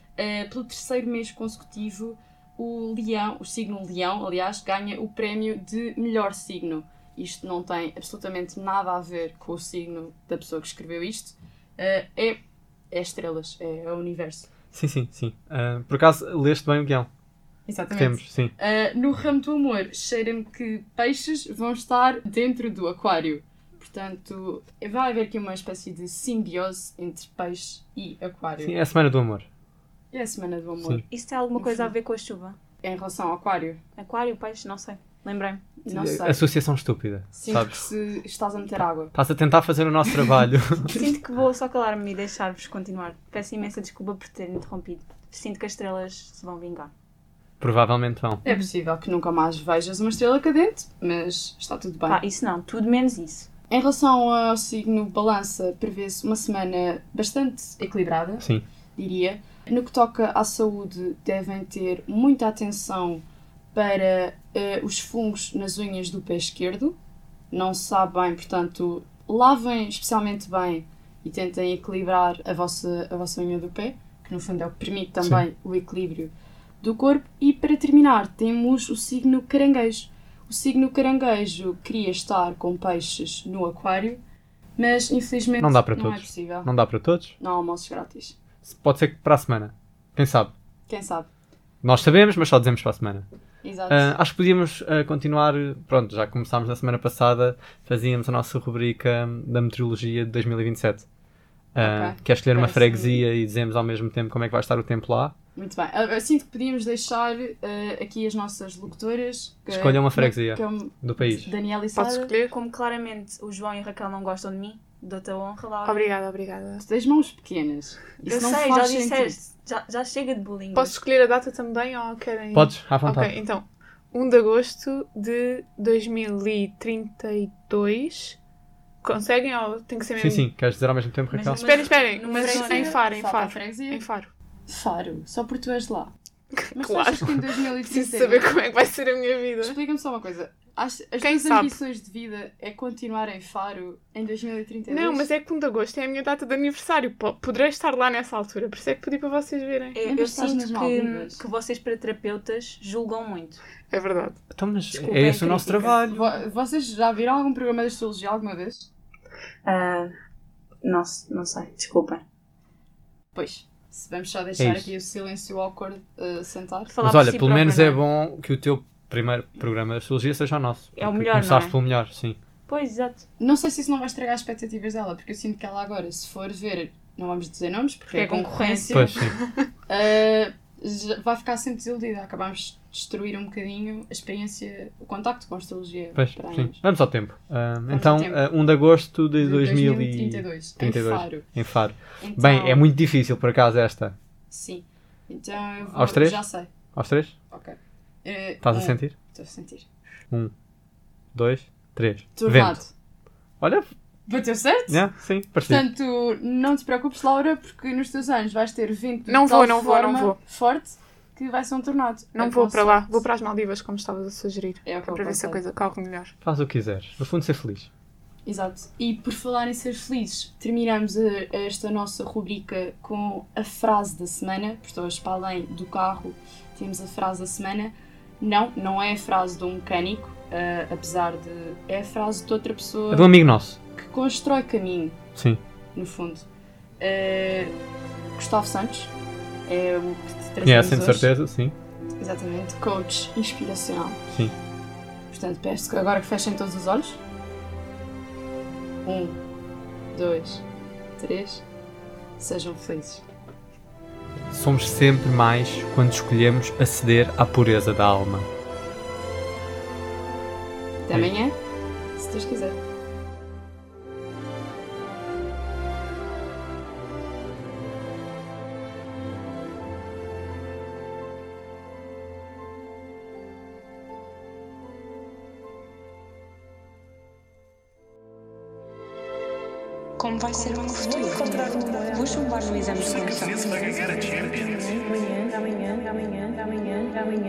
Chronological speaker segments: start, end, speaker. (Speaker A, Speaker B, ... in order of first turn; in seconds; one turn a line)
Speaker A: 0.2-14.5
Speaker B: 14.7-17.1
Speaker A: 17.7-28.8
Speaker B: 17.9-18.5
Speaker B: 28.6-29.5
Speaker A: 30.1-31.1
Speaker C: 31.1-32.6
Speaker A: 31.6-31.9
Speaker A: 32.8-33.8
Speaker C: 34.0-35.8
Speaker A: 35.9-36.5
Speaker B: 35.9-37.8
Speaker A: 37.3-39.1
Speaker B: 39.1-41.0
Speaker C: 40.9-46.9
Speaker B: 47.6-48.4
Speaker A: 48.4-52.2
Speaker C: 52.1-53.5
Speaker A: 53.7-67.0
Speaker A: 67.5-84.2
Speaker A: 84.8-86.7
Speaker B: 85.6-87.4
Speaker A: 87.4-88.4
Speaker B: 88.6-90.5
Speaker A: 90.9-91.3
Speaker B: 91.8-93.3
Speaker A: 93.6-94.1
Speaker B: 93.9-101.1
Speaker B: 101.7-105.3
Speaker A: 101.8-103.3
Speaker A: 105.5-112.3
Speaker B: 109.7-111.5
Speaker D: 112.0-112.5
Speaker C: 112.5-116.1
Speaker D: 115.8-116.8
Speaker A: 116.8-119.4
Speaker C: 118.3-121.0
Speaker D: 120.8-128.4
Speaker B: 122.5-123.3
Speaker D: 129.0-130.5
Speaker B: 130.2-131.6
Speaker C: 131.3-133.0
Speaker D: 131.6-134.3
Speaker A: 132.2-134.0
Speaker A: 134.7-136.1
Speaker D: 136.6-139.8
Speaker A: 136.7-138.6
Speaker A: 139.6-145.3
Speaker D: 141.2-141.8
Speaker D: 144.9-150.0
Speaker C: 149.9-153.6
Speaker A: 150.1-151.4
Speaker D: 153.9-154.4
Speaker B: 154.5-156.2
Speaker C: 154.9-156.0
Speaker A: 156.1-158.9
Speaker C: 159.7-160.1
Speaker C: 160.8-162.2
Speaker A: 163.3-166.9
Speaker B: 164.6-164.9
Speaker C: 166.9-168.0
Speaker B: 167.0-172.4
Speaker C: 171.0-171.8
Speaker C: 172.7-173.2
Speaker A: 173.4-179.3
Speaker C: 178.1-179.2
Speaker B: 178.9-179.4
Speaker A: 179.9-186.8
Speaker B: 186.2-194.2
Speaker A: 187.9-188.5
Speaker A: 189.4-191.5
Speaker A: 192.2-192.9
Speaker A: 194.5-196.7
Speaker B: 195.9-196.4
Speaker B: 196.9-197.3
Speaker A: 197.5-199.9
Speaker B: 198.6-199.1
Speaker B: 201.3-202.8
Speaker A: 202.4-202.9
Speaker B: 203.6-203.9
Speaker A: 204.3-205.0
Speaker B: 204.9-205.8
Speaker A: 205.6-213.2
Speaker D: 209.3-210.4
Speaker D: 212.3-216.3
Speaker A: 214.8-215.6
Speaker B: 216.4-217.9
Speaker A: 218.4-233.3
Speaker B: 233.1-233.8
Speaker A: 233.9-235.2
Speaker B: 235.4-235.6
Speaker A: 235.9-236.5
Speaker A: 237.0-237.7
Speaker A: 238.3-239.1
Speaker A: 239.7-241.3
Speaker B: 240.6-241.8
Speaker A: 242.2-244.2
Speaker A: 245.3-247.2
Speaker A: 249.0-249.4
Speaker A: 250.1-250.7
Speaker A: 251.2-251.7
Speaker A: 252.4-253.2
Speaker B: 254.5-258.5
Speaker A: 261.1-261.6
Speaker A: 262.2-262.8
Speaker E: 280.2-284.9